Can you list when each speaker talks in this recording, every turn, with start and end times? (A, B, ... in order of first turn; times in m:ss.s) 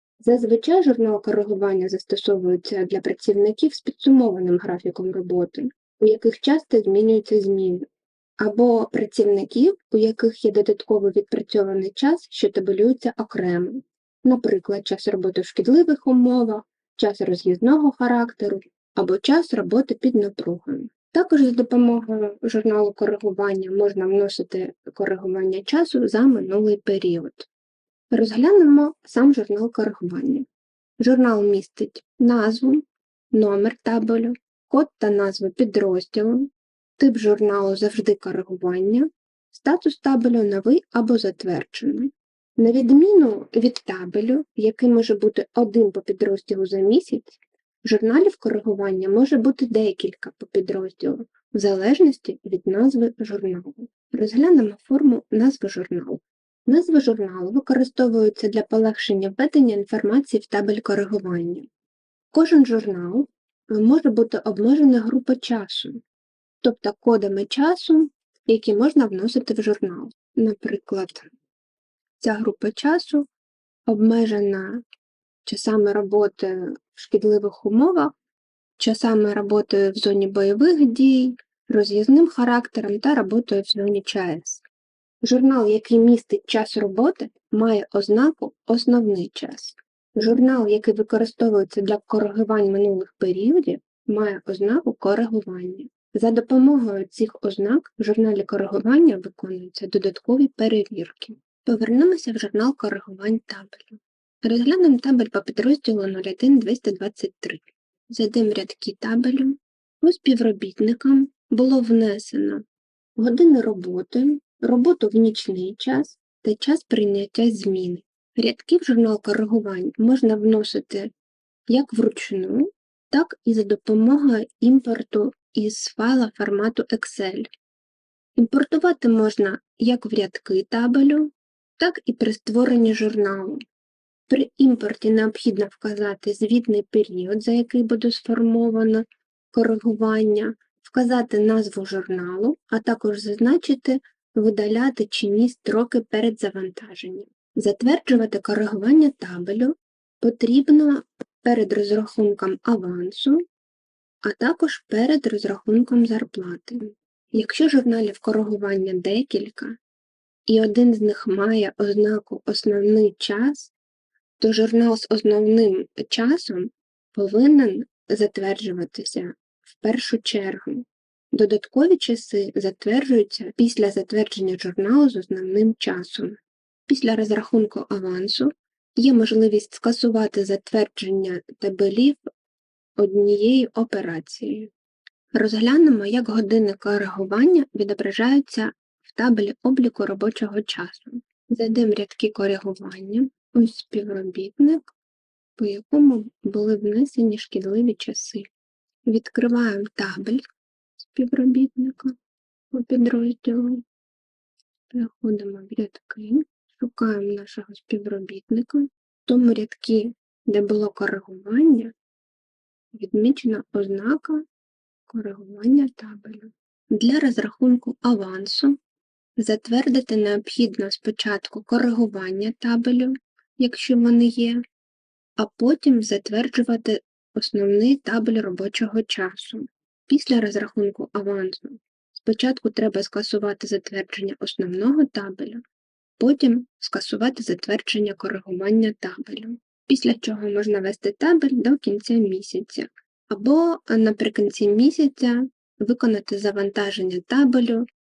0:00.2-0:07.8 A
0:08.4-0:27.5 A
0:28.1-0:30.4 A
0:31.0-1:01.7 A
1:02.3-1:06.0 A
1:06.6-1:11.3 A
1:12.2-1:13.3 A
1:13.9-1:14.8 A
1:15.4-1:18.1 A
1:18.8-1:24.6 A
1:25.2-1:52.6 A
1:53.2-2:01.1 A
2:01.7-2:07.5 A
2:08.4-2:13.6 A
2:14.3-2:33.4 A
2:34.2-2:39.8 A
2:40.5-2:43.7 A
2:44.4-3:02.2 A
3:03.0-3:04.7 A
3:05.3-3:14.9 A
3:15.6-3:18.4 A
3:19.1-3:20.4 A
3:21.0-3:22.1 A
3:22.7-3:23.8 A
3:24.9-3:31.9 A
3:32.9-3:34.4 A
3:35.1-3:38.8 A
3:39.4-3:44.6 A
3:45.4-3:55.6 A
3:56.2-4:07.8 A